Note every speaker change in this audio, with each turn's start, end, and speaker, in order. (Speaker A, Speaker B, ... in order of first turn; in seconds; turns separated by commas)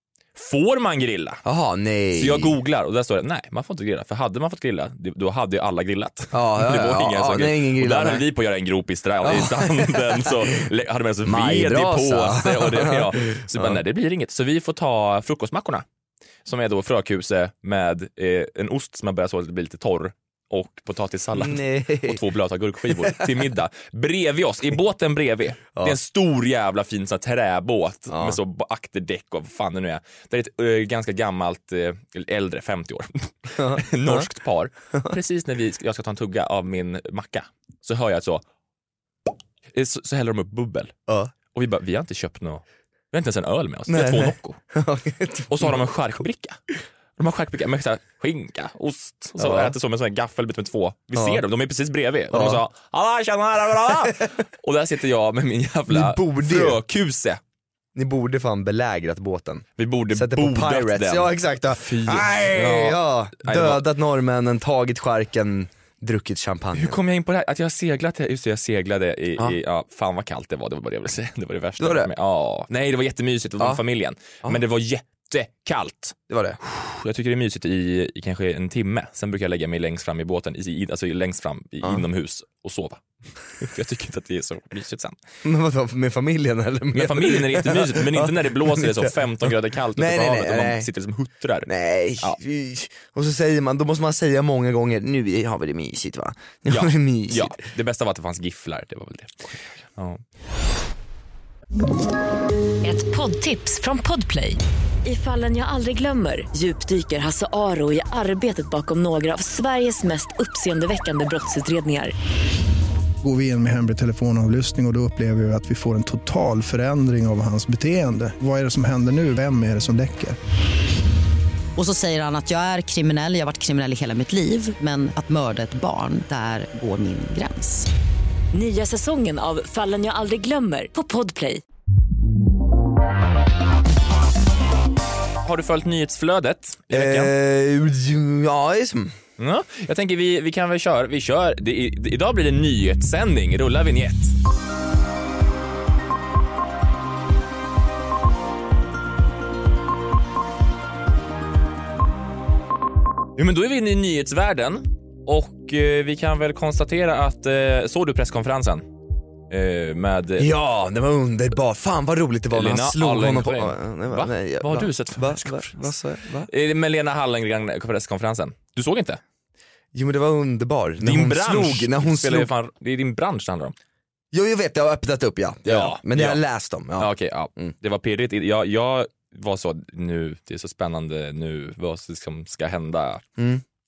Speaker A: 0.3-1.4, Speaker B: 1.4-2.6, Speaker A: 2.1-15.8, Speaker B: 6.3-8.2, Speaker B: 9.2-10.6, Speaker B: 11.2-13.8, Speaker A: 16.4-38.4, Speaker B: 21.3-22.2, Speaker B: 22.9-23.3, Speaker B: 28.1-28.4, Speaker B: 33.5-34.3, Speaker A: 39.7-40.9, Speaker B: 41.1-41.3, Speaker A: 41.5-44.6, Speaker B: 43.9-45.9, Speaker A: 45.5-46.6, Speaker A: 47.2-57.4, Speaker B: 49.4-49.8, Speaker B: 51.1-51.4, Speaker B: 52.3-52.6, Speaker B: 55.9-56.8, Speaker B: 57.9-67.0, Speaker A: 59.8-63.8, Speaker A: 66.7-85.2, Speaker B: 71.8-72.1, Speaker B: 76.3-76.6, Speaker B: 85.4-90.9, Speaker A: 86.9-91.7, Speaker B: 91.7-97.6, Speaker A: 96.7-100.2, Speaker C: 102.8-112.1, Speaker D: 113.2-120.4, Speaker E: 121.8-127.9, Speaker C: 128.5-131.6, Speaker A: 135.4-137.3, Speaker B: 136.9-139.2, Speaker A: 139.4-144.3, Speaker A: 153.3-158.9, Speaker A: 159.5-160.5, Speaker B: 160.4-166.5, Speaker A: 162.5-165.9, Speaker A: 166.5-169.2, Speaker B: 169.9-172.5, Speaker A: 171.0-173.7, Speaker B: 174.3-177.7, Speaker A: 175.7-176.4, Speaker A: 177.0-183.2, Speaker B: 183.4-183.6